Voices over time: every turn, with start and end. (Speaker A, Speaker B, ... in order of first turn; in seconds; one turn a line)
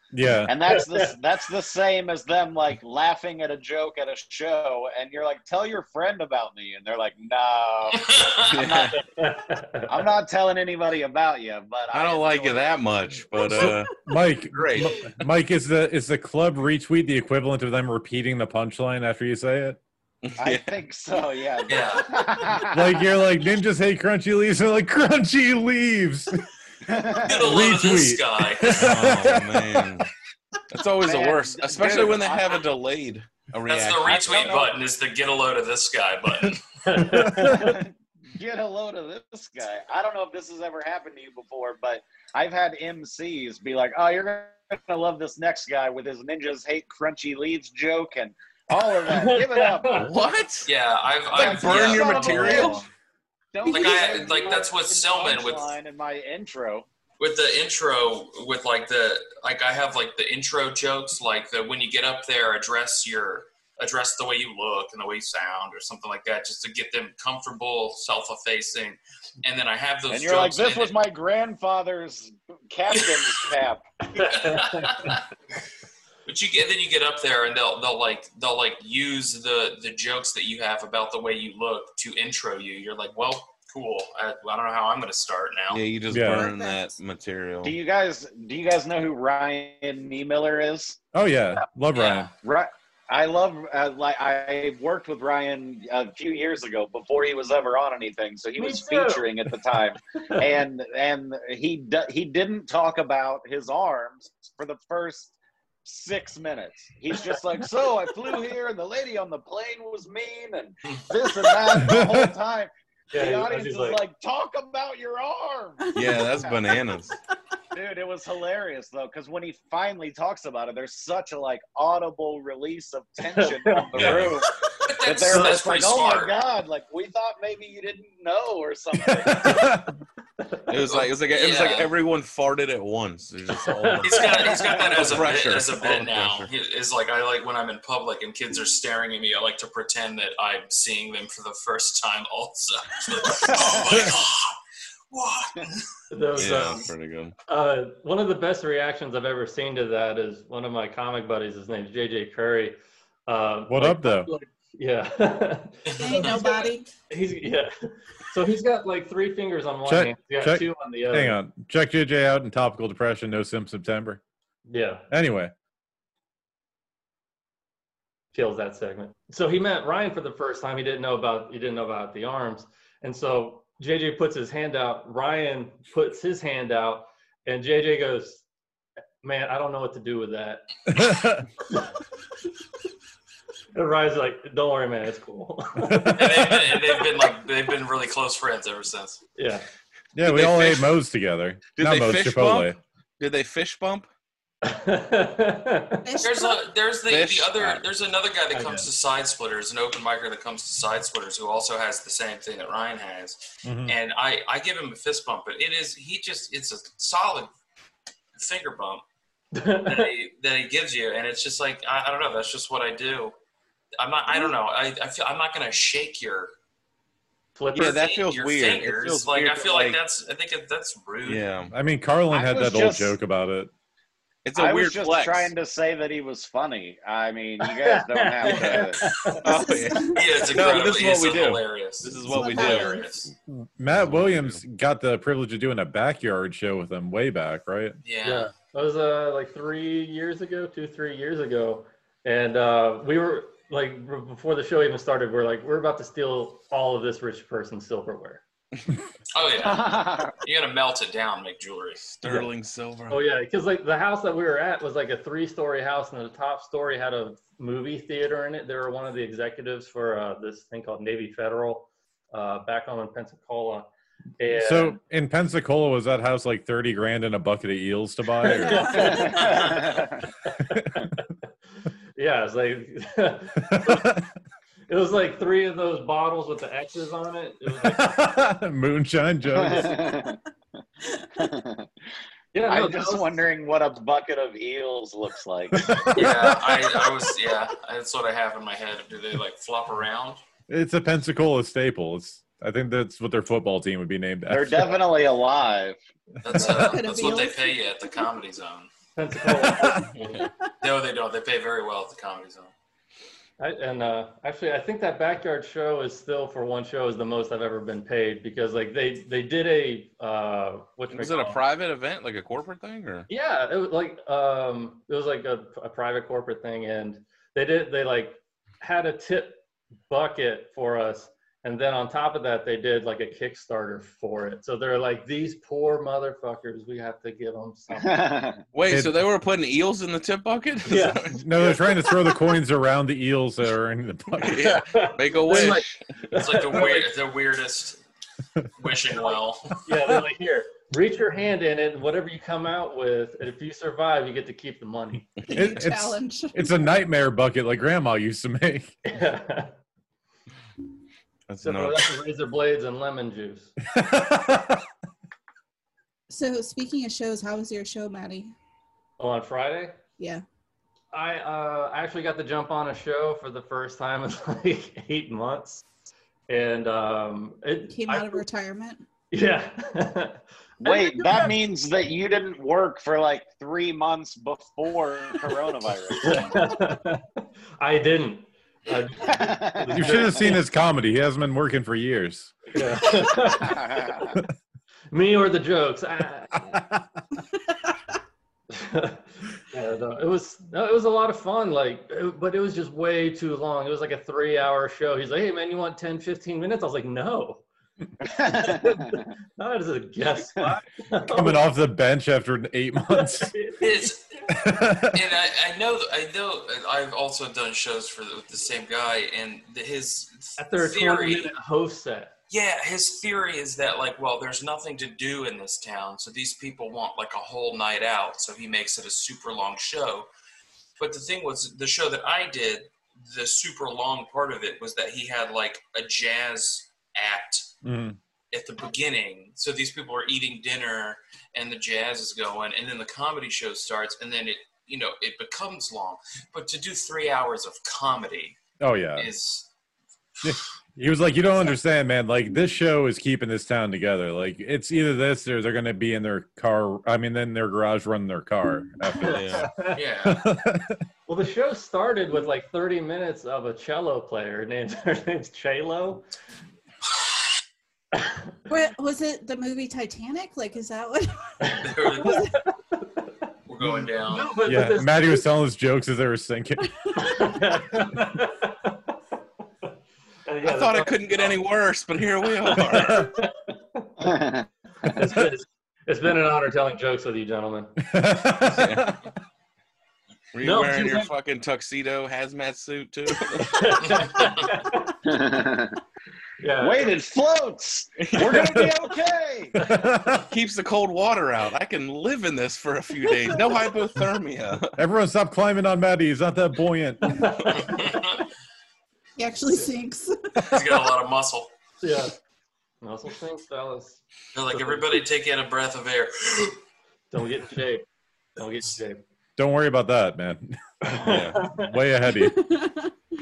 Speaker A: 0.1-0.5
Speaker B: 0.5-9.0
Speaker C: 0.7-1.1
Speaker D: 8.1-8.4
Speaker E: 8.4-9.0
Speaker C: 8.9-10.0
Speaker B: 9.9-12.9
Speaker E: 11.9-13.9
Speaker A: 13.6-19.8
Speaker E: 14.5-15.1
Speaker E: 20.2-20.8
Speaker B: 20.4-23.0
Speaker D: 21.7-22.6
Speaker A: 22.7-26.4
Speaker B: 26.9-27.4
Speaker D: 27.2-29.0
Speaker A: 27.4-29.9
Speaker E: 28.7-30.1
Speaker E: 30.7-34.5
Speaker B: 31.0-32.6
Speaker D: 33.7-36.6
Speaker B: 34.1-34.7
Speaker C: 36.9-37.8
Speaker A: 37.0-37.6
Speaker B: 37.4-50.2
Speaker C: 49.1-50.1
Speaker E: 49.9-50.7
Speaker D: 50.7-52.7
Speaker B: 51.3-52.9
Speaker E: 51.3-52.8
Speaker C: 52.4-52.8
Speaker B: 53.5-56.9
Speaker F: 53.7-54.3
Speaker D: 53.7-55.7
Speaker D: 57.2-71.0
Speaker B: 70.1-74.6
Speaker D: 72.9-73.5
Speaker C: 74.2-75.2
Speaker D: 74.2-75.2
Speaker D: 76.3-85.8
Speaker E: 85.7-87.8
Speaker A: 86.1-86.5
Speaker F: 86.2-87.0
Speaker B: 87.6-91.0
Speaker A: 91.1-92.3
Speaker D: 91.9-92.3
Speaker B: 92.4-116.7
Speaker C: 98.6-99.6
Speaker A: 111.8-112.3
Speaker C: 113.1-114.0
Speaker E: 116.0-117.2
Speaker B: 117.7-129.8
Speaker C: 123.3-124.2
Speaker E: 124.0-124.4
Speaker A: 124.0-124.3
Speaker D: 124.8-126.4
Speaker A: 129.2-129.9
Speaker C: 130.4-130.8
Speaker E: 130.7-136.5
Speaker D: 130.9-131.9
Speaker C: 133.6-134.6
Speaker D: 134.0-144.6
Speaker B: 134.7-135.0
Speaker B: 143.5-144.0
Speaker D: 145.1-145.9
Speaker C: 146.1-146.9
Speaker E: 146.4-147.3
Speaker C: 147.5-161.4
Speaker A: 153.7-154.3
Speaker D: 155.9-156.7
Speaker F: 156.0-156.9
Speaker A: 159.9-164.2
Speaker C: 164.7-165.1
Speaker A: 165.1-165.5
Speaker C: 168.3-178.4
Speaker C: 179.2-180.7
Speaker A: 180.9-181.5
Speaker C: 183.8-186.7
Speaker A: 185.8-186.6
Speaker D: 186.2-189.2
Speaker C: 189.4-189.7
Speaker A: 190.2-192.8
Speaker E: 190.2-190.9
Speaker E: 191.7-194.1
Speaker C: 194.6-196.1
Speaker F: 196.0-196.7
Speaker D: 196.2-207.5
Speaker E: 197.1-197.8
Speaker C: 198.5-198.9
Speaker A: 203.6-204.0
Speaker D: 208.4-209.0
Speaker C: 209.5-210.1
Speaker D: 209.8-213.3
Speaker D: 214.0-216.5
Speaker C: 217.6-218.0
Speaker E: 217.8-220.0
Speaker D: 217.8-221.4
Speaker E: 221.2-221.7
Speaker A: 221.7-223.7
Speaker B: 222.3-223.2
Speaker E: 224.4-225.5
Speaker B: 224.6-229.2
Speaker C: 227.6-229.4
Speaker E: 228.4-228.9
Speaker E: 229.4-233.0
Speaker F: 229.4-230.5
Speaker D: 230.1-233.3
Speaker F: 232.2-233.1
Speaker A: 233.5-238.0
Speaker E: 233.9-234.6
Speaker D: 238.0-238.5
Speaker C: 238.2-248.4
Speaker D: 249.3-252.1
Speaker B: 249.6-250.4
Speaker E: 252.0-253.2
Speaker C: 252.2-252.5
Speaker C: 253.1-265.0
Speaker A: 264.6-269.2
Speaker C: 268.4-269.8
Speaker F: 268.4-269.6
Speaker B: 268.9-270.3
Speaker C: 270.4-271.2
Speaker A: 270.7-271.0
Speaker C: 272.2-274.2
Speaker A: 273.6-274.3
Speaker C: 274.9-278.2
Speaker A: 277.8-280.1
Speaker B: 279.5-280.4
Speaker B: 281.4-281.9
Speaker C: 282.5-283.4
Speaker B: 282.6-286.1
Speaker A: 285.7-286.8
Speaker D: 286.1-290.4
Speaker A: 290.7-295.0
Speaker B: 294.5-296.0
Speaker D: 296.4-298.9
Speaker F: 296.6-298.3
Speaker C: 299.2-300.4
Speaker A: 299.5-300.0
Speaker E: 300.1-300.5
Speaker D: 300.8-302.7
Speaker C: 303.6-311.6
Speaker E: 311.1-313.3
Speaker C: 313.3-328.4
Speaker B: 328.0-328.6
Speaker E: 328.7-331.4
Speaker A: 328.9-329.2
Speaker C: 330.9-331.8
Speaker A: 331.3-334.8
Speaker E: 334.4-336.0
Speaker C: 334.6-337.1
Speaker D: 336.4-338.0
Speaker D: 338.8-339.8
Speaker C: 339.9-345.3
Speaker F: 345.5-346.7
Speaker A: 345.5-349.0
Speaker C: 349.1-349.8
Speaker E: 351.5-352.2
Speaker C: 351.6-353.7
Speaker A: 353.9-354.8
Speaker F: 356.3-358.5
Speaker C: 359.2-360.0
Speaker C: 361.1-365.9
Speaker C: 366.5-368.4
Speaker F: 367.9-369.0
Speaker C: 369.3-370.4
Speaker B: 370.8-376.6
Speaker C: 371.1-371.5
Speaker C: 376.2-380.6
Speaker B: 379.3-380.4
Speaker A: 379.9-382.6
Speaker C: 382.7-384.3
Speaker B: 383.4-384.4
Speaker C: 385.1-386.8
Speaker A: 386.7-387.0
Speaker C: 388.7-397.6
Speaker B: 398.2-399.2
Speaker C: 398.3-401.7
Speaker A: 401.3-403.5
Speaker C: 403.1-404.6
Speaker D: 403.8-411.5
Speaker A: 404.6-405.2
Speaker C: 410.6-412.3
Speaker D: 412.5-420.3
Speaker D: 421.0-427.7
Speaker A: 427.8-428.2
Speaker D: 428.5-438.6
Speaker A: 438.8-439.3
Speaker D: 439.2-439.7
Speaker A: 440.4-449.7
Speaker E: 449.2-449.7
Speaker C: 449.5-450.0
Speaker D: 449.9-450.5
Speaker A: 450.2-451.0
Speaker C: 451.3-456.3
Speaker C: 458.1-458.4
Speaker F: 458.7-462.6
Speaker C: 461.6-463.3
Speaker D: 461.8-462.5
Speaker D: 463.7-464.5
Speaker C: 464.2-465.5
Speaker A: 464.6-467.4
Speaker C: 467.2-469.0
Speaker C: 470.5-471.6
Speaker E: 470.6-473.3
Speaker C: 472.5-474.5
Speaker B: 474.2-474.7
Speaker C: 475.0-478.0
Speaker A: 478.1-479.2
Speaker E: 478.7-479.2
Speaker E: 480.5-484.1
Speaker C: 480.6-481.3
Speaker C: 483.6-485.2
Speaker B: 485.2-486.0
Speaker C: 486.6-487.1
Speaker B: 486.8-489.8
Speaker E: 488.2-488.9
Speaker C: 489.8-490.1
Speaker A: 489.8-490.4
Speaker E: 490.5-495.0
Speaker A: 495.0-497.5
Speaker C: 497.3-498.2
Speaker D: 497.7-498.4
Speaker F: 499.4-500.8
Speaker D: 500.6-501.7
Speaker C: 502.0-502.4
Speaker C: 503.0-505.2
Speaker D: 504.5-506.8
Speaker C: 507.3-508.1
Speaker C: 508.6-509.2
Speaker A: 509.6-512.7
Speaker C: 511.1-512.0
Speaker E: 511.2-511.6
Speaker F: 512.4-513.1